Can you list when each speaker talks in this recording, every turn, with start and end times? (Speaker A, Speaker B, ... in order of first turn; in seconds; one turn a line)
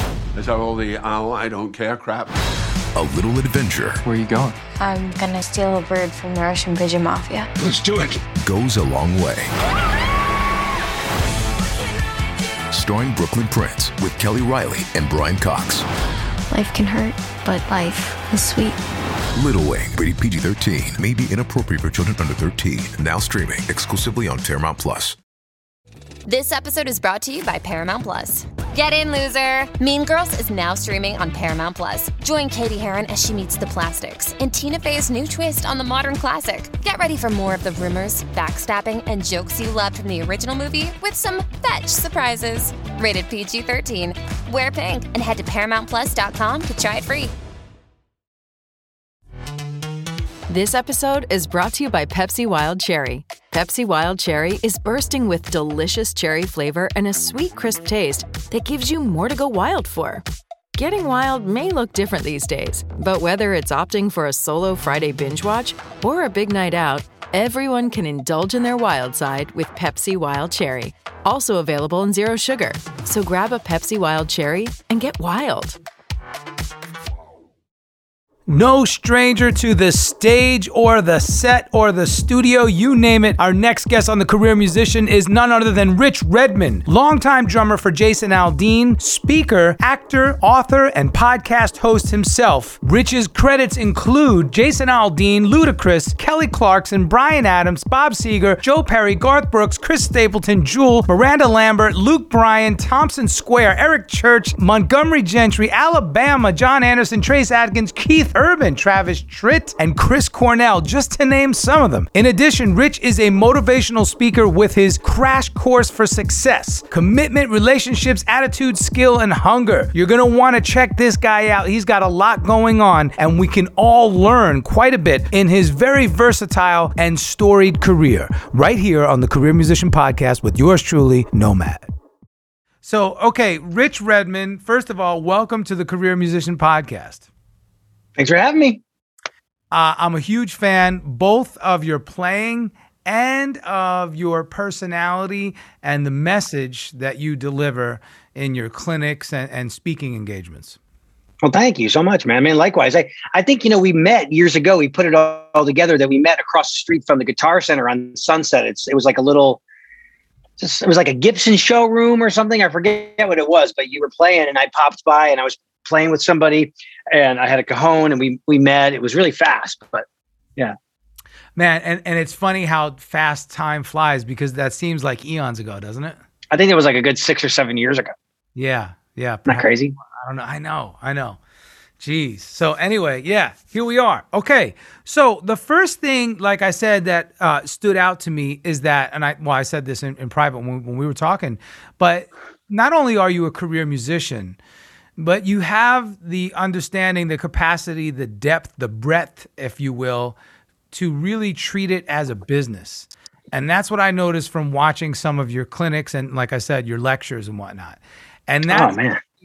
Speaker A: 0.4-2.3
Speaker B: 2.9-4.0
Speaker C: 4.8-7.5
Speaker B: 8.4-9.5
Speaker B: 12.7-15.8
Speaker C: 16.5-18.8
Speaker B: 19.4-25.2
Speaker D: 26.3-47.3
Speaker E: 50.5-60.2
Speaker E: 60.8-75.8
Speaker F: 78.5-131.8
Speaker F: 132.8-137.3
Speaker G: 138.2-138.8
Speaker F: 139.7-150.8
Speaker G: 151.4-159.6
Speaker G: 160.6-170.1
Speaker F: 171.6-176.2
Speaker G: 176.5-178.1
Speaker F: 178.6-181.4
Speaker G: 179.5-179.9
Speaker F: 182.0-194.6
Speaker F: 195.2-200.4
Speaker F: 200.9-209.0
Speaker G: 208.7-209.2